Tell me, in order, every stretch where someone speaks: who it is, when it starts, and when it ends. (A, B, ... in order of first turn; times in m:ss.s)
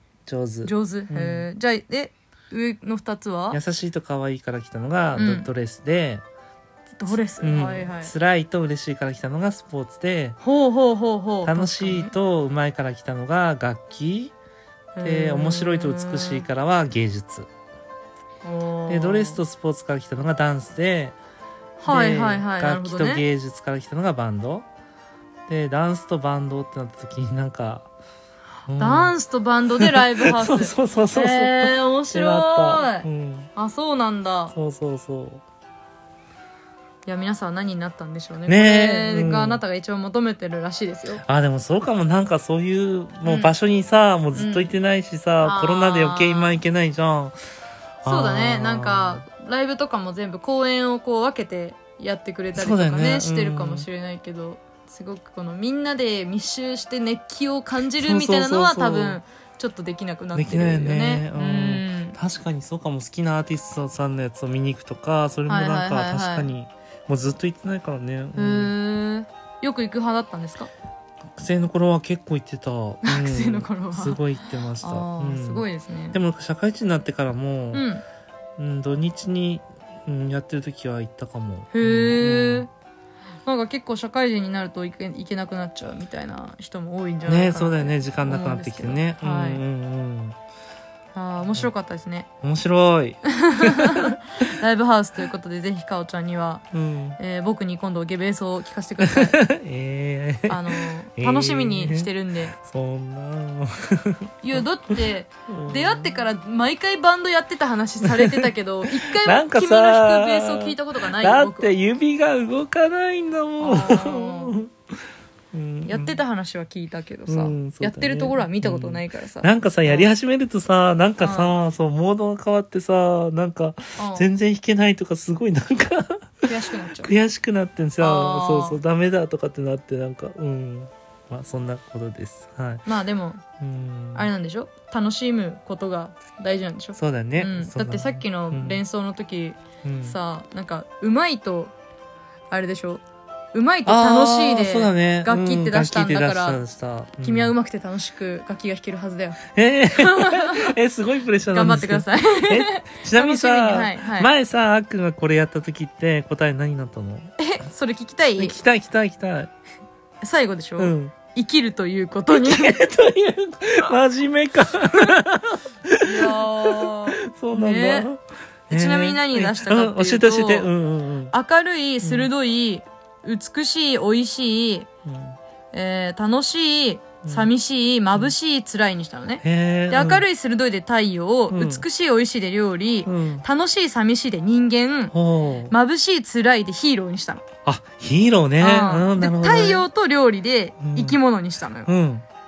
0:00.2-0:01.5 A
0:00.6-0:03.6 B
0:03.5-0:06.2 A
0:05.1-0:05.5 B
0:07.0-0:08.1 B
0:07.1-0:10.4 A
0:10.4-0:12.1 B
0:11.4-0:14.3 A
0:14.9-0:16.5 B
0:15.0-0:17.5 A
0:18.4-0:19.4 B
0:18.9-0:21.2 A
0:21.8-0:23.2 B
0:21.8-0:24.7 A
0:25.5-0:27.9 A
0:28.7-0:29.1 A
0:28.7-0:34.5 B
0:29.8-0:33.5 A
0:34.5-0:35.4 A
0:37.0-0:41.2 B
0:38.5-0:39.6 A
0:41.2-0:47.3 A
0:43.2-0:43.5 B
0:44.3-0:44.7 B
0:45.4-0:46.6 B
0:48.0-0:49.2 A
0:48.0-1:02.2 B
0:52.5-0:53.9 A
0:58.0-0:59.2 A
1:00.3-1:08.7 A
1:05.5-1:06.5 B
1:08.3-1:10.7 B
1:11.3-1:17.8 A
1:13.0-1:14.2 B
1:14.8-1:16.2 B
1:17.7-1:18.0 B
1:18.6-1:22.6 A
1:21.7-1:22.7 B
1:23.4-1:29.6 B
1:27.2-1:30.4 A
1:31.1-1:32.3 B
1:32.4-1:34.2 A
1:33.3-1:36.6 B
1:36.7-1:37.2 A
1:37.2-1:39.4 B
1:39.0-1:44.6 A
1:40.5-1:42.6 B
1:44.4-1:51.7 B
1:45.5-1:46.2 A
1:48.2-1:48.4 A
1:49.2-1:54.7 A
1:53.6-1:54.6 B
1:55.5-1:56.2 A
1:55.8-2:00.1 B
1:57.3-2:06.4 A
2:01.2-2:01.5 B
2:04.0-2:04.3 B
2:06.4-2:07.1 B
2:07.0-2:12.8 A
2:08.0-2:08.8 B
2:12.8-2:13.4 B
2:13.6-2:14.3 A
2:14.1-2:21.7 B
2:17.0-2:18.8 A
2:19.8-2:20.2 A
2:22.5-2:23.0 B
2:23.5-2:26.6 B
2:23.8-2:27.5 A
2:27.2-2:29.4 B
2:29.5-2:37.3 A
2:29.9-2:30.7 B
2:31.5-2:34.3 B
2:37.4-2:38.6 B
2:38.4-2:39.5 A
2:40.2-2:42.8 B
2:40.8-2:41.1 A
2:42.3-2:51.3 A
2:46.0-2:48.1 B
2:48.7-2:50.7 B
2:51.3-2:54.9 B
2:52.0-2:52.3 A
2:55.0-2:55.4 A
2:55.7-3:05.1 B
2:57.2-2:57.5 A
2:59.4-3:00.2 A
3:01.5-3:01.8 A
3:03.0-3:03.4 A
3:05.1-3:05.7 A
3:05.7-3:07.4 B
3:07.6-3:09.8 A
3:08.6-3:11.9 B
3:10.8-3:11.2 A
3:11.8-3:12.2 A